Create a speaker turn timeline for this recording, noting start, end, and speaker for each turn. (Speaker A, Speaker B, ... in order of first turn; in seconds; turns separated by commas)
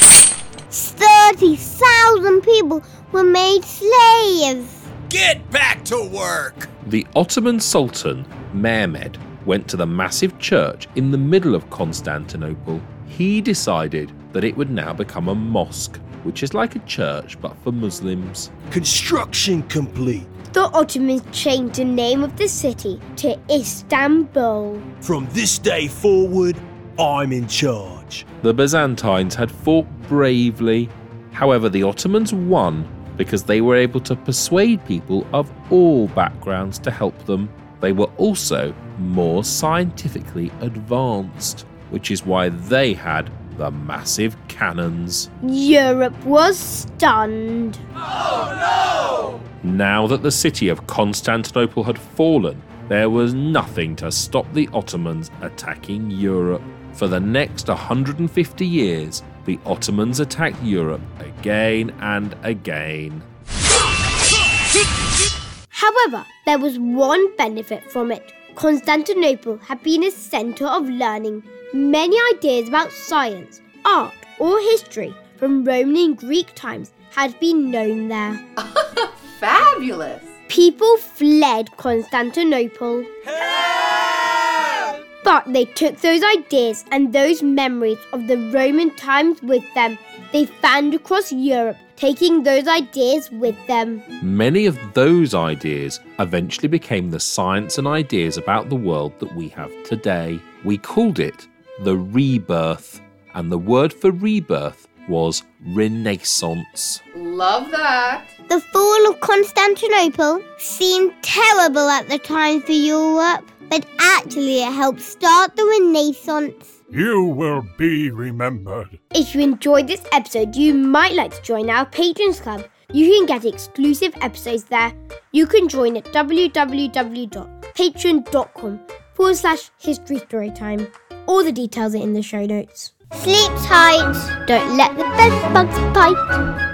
Speaker A: 0.7-4.8, Speaker B: 5.1-6.7, Speaker C: 6.8-18.5, Speaker B: 18.7-20.3, Speaker D: 20.5-24.9, Speaker B: 25.0-28.3, Speaker C: 28.4-45.3, Speaker D: 45.4-47.8, Speaker C: 49.6-63.3, Speaker D: 65.7-78.4, Speaker E: 78.6-80.3, Speaker D: 80.5-83.1, Speaker D: 85.2-94.0, Speaker C: 94.2-107.0, Speaker E: 107.1-108.3, Speaker A: 108.5-116.6, Speaker F: 116.9-119.0, Speaker D: 119.1-132.9, Speaker A: 133.2-136.2